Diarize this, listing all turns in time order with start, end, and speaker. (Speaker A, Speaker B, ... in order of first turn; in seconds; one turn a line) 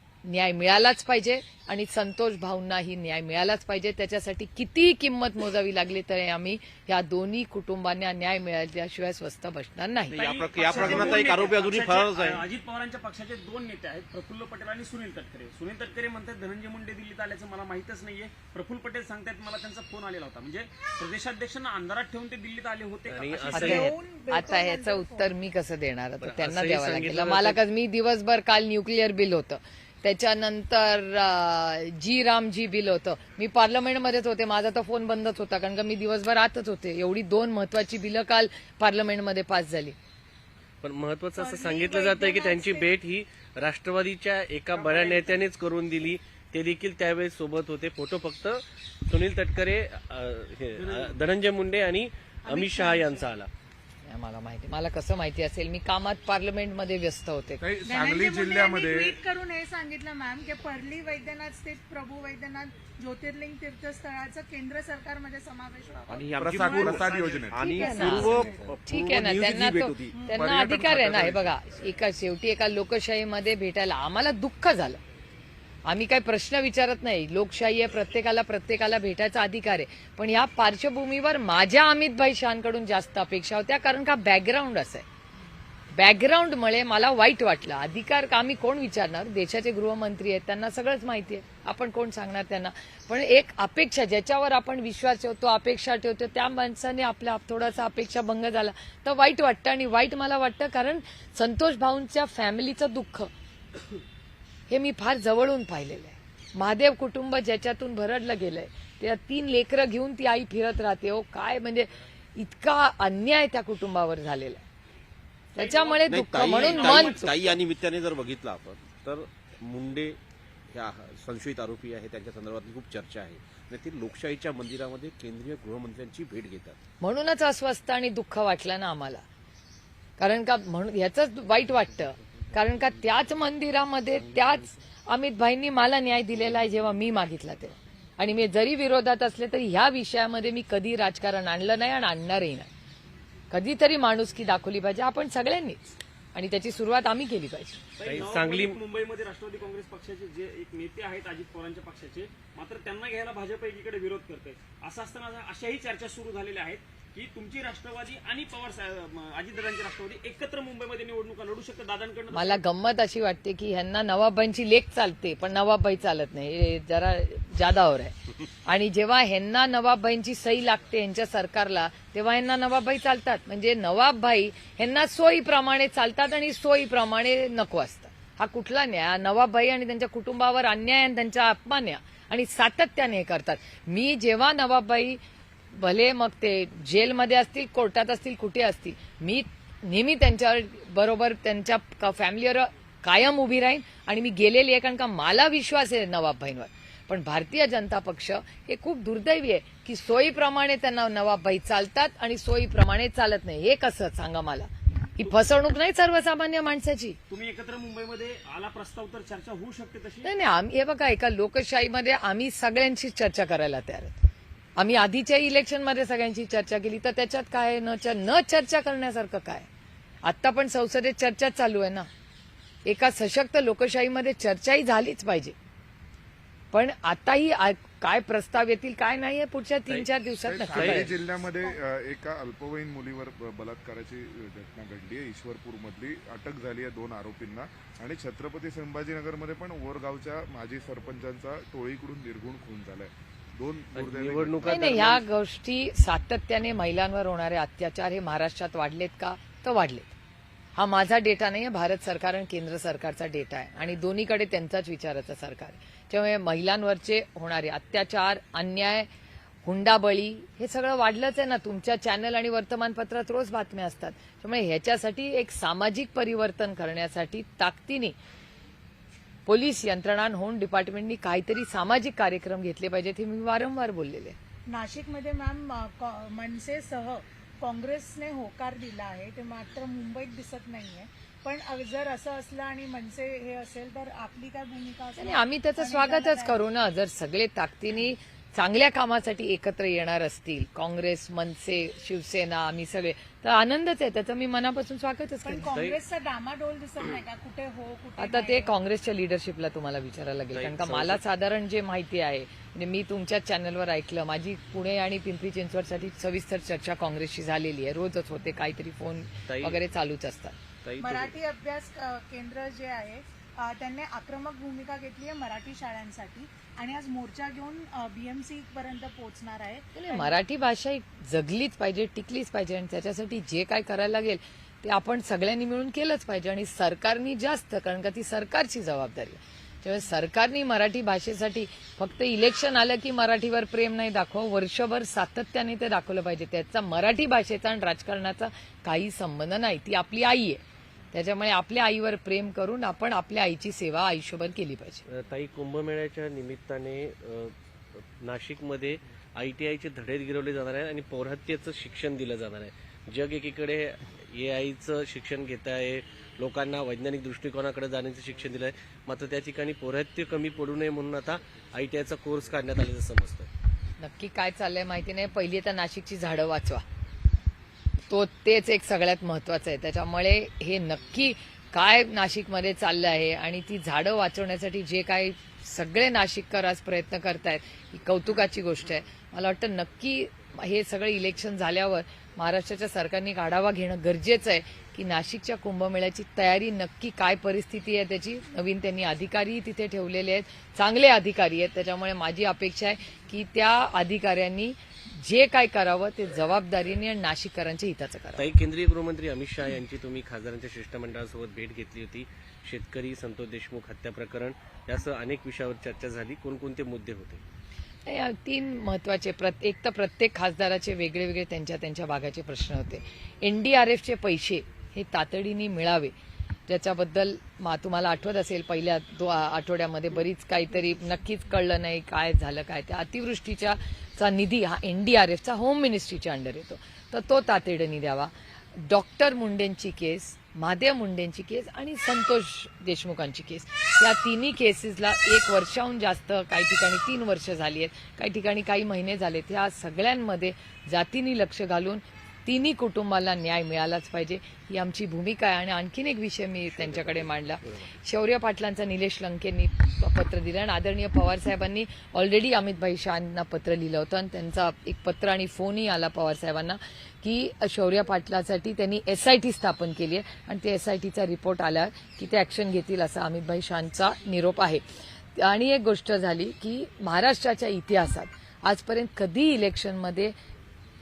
Speaker A: 0.2-10.2
Speaker B: 10.1-12.5
Speaker C: 10.1-23.6
Speaker A: 10.8-11.1
Speaker D: 23.1-23.9
Speaker A: 23.5-40.0
Speaker E: 23.5-25.3
Speaker D: 26.2-27.6
Speaker D: 40.8-53.5
Speaker E: 41.4-42.9
Speaker C: 44.7-45.4
Speaker C: 50.8-51.2
Speaker E: 52.5-53.3
Speaker A: 54.0-57.6
Speaker F: 57.6-59.2
Speaker E: 57.8-67.1
Speaker B: 66.1-70.2
Speaker F: 66.4-67.7
Speaker C: 67.1-67.6
Speaker E: 67.6-68.8
Speaker A: 67.8-75.0
Speaker F: 69.3-71.5
Speaker E: 70.1-70.5
Speaker A: 75.9-85.0
Speaker A: 86.0-103.3
Speaker A: 104.7-114.6
Speaker A: 115.5-117.6
Speaker C: 115.6-117.2
Speaker B: 116.0-120.2
Speaker B: 120.7-126.8
Speaker A: 127.0-129.2
Speaker A: 130.2-142.7
Speaker A: 143.5-147.8
Speaker C: 148.0-162.6
Speaker D: 148.0-148.8
Speaker A: 162.3-185.2
Speaker A: 185.7-207.2
Speaker C: 207.3-210.3
Speaker A: 210.2-214.1
Speaker A: 214.8-219.7
Speaker A: 220.2-222.1
Speaker A: 222.8-225.6
Speaker A: 226.7-231.1
Speaker F: 230.4-245.1
Speaker D: 230.7-231.1
Speaker D: 243.9-245.2
Speaker A: 244.7-250.1
Speaker A: 250.8-259.1
Speaker A: 259.6-268.1
Speaker A: 269.4-274.4
Speaker E: 274.7-286.6
Speaker A: 285.2-295.7
Speaker E: 295.4-298.7
Speaker D: 295.7-296.0
Speaker A: 298.2-310.6
Speaker D: 300.5-301.2
Speaker D: 309.5-309.8
Speaker D: 310.8-311.3
Speaker E: 311.0-320.4
Speaker A: 319.9-345.0
Speaker D: 345.1-347.5
Speaker D: 348.2-363.5
Speaker A: 364.0-366.8
Speaker A: 368.1-398.5
Speaker D: 398.4-407.4
Speaker A: 408.1-416.1
Speaker A: 416.7-464.8
Speaker B: 446.8-447.9
Speaker A: 465.3-470.3